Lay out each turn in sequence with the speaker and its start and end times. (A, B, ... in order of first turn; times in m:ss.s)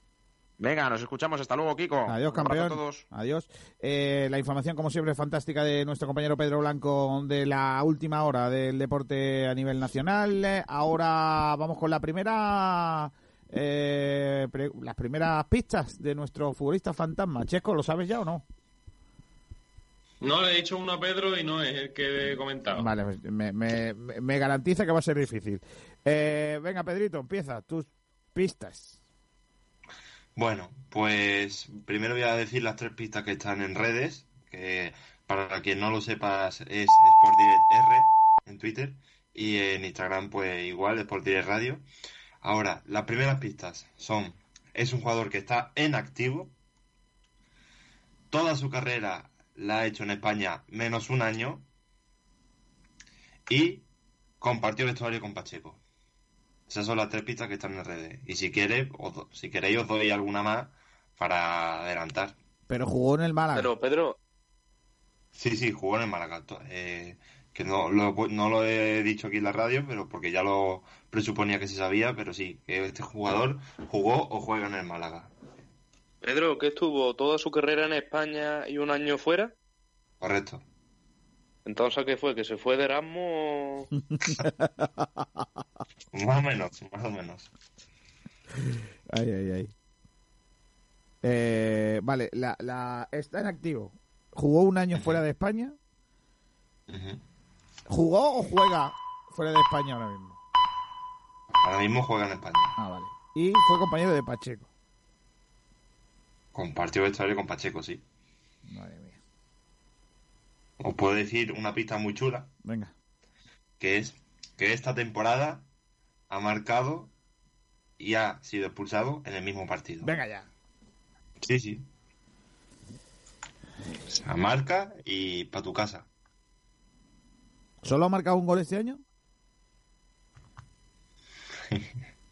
0:00.6-0:03.0 A
0:02.1-0:18.4 B
0:20.2-0:22.9 C
0:22.7-0:29.0 B
0:30.4-0:41.8 D
0:42.4-0:46.5 D
0:48.3-0:51.6 D
0:53.5-0:53.8 D
0:54.4-0:55.8 D
0:56.7-1:02.3 D
1:02.7-1:03.7 B
1:03.5-1:04.2 E
1:05.3-1:15.3 D
1:16.2-1:19.5 E
1:20.2-1:20.6 D
1:21.7-1:23.9 E
1:24.2-1:25.0 B
1:26.1-1:27.5 D
1:29.1-1:29.7 B
1:31.2-1:35.8 B
1:36.9-1:37.2 D
1:37.9-1:40.4 B
1:41.6-1:42.7 D
1:42.8-1:44.7 B
1:46.5-1:48.0 D
1:48.7-1:49.2 B
1:50.8-1:52.5 D
1:52.6-1:52.9 B
1:53.8-1:55.6 D
1:56.3-1:57.1 D
1:58.0-2:00.1 D
2:00.0-2:00.5 B
2:01.4-2:01.8 D
2:04.1-2:06.0 D
2:07.8-2:09.0 B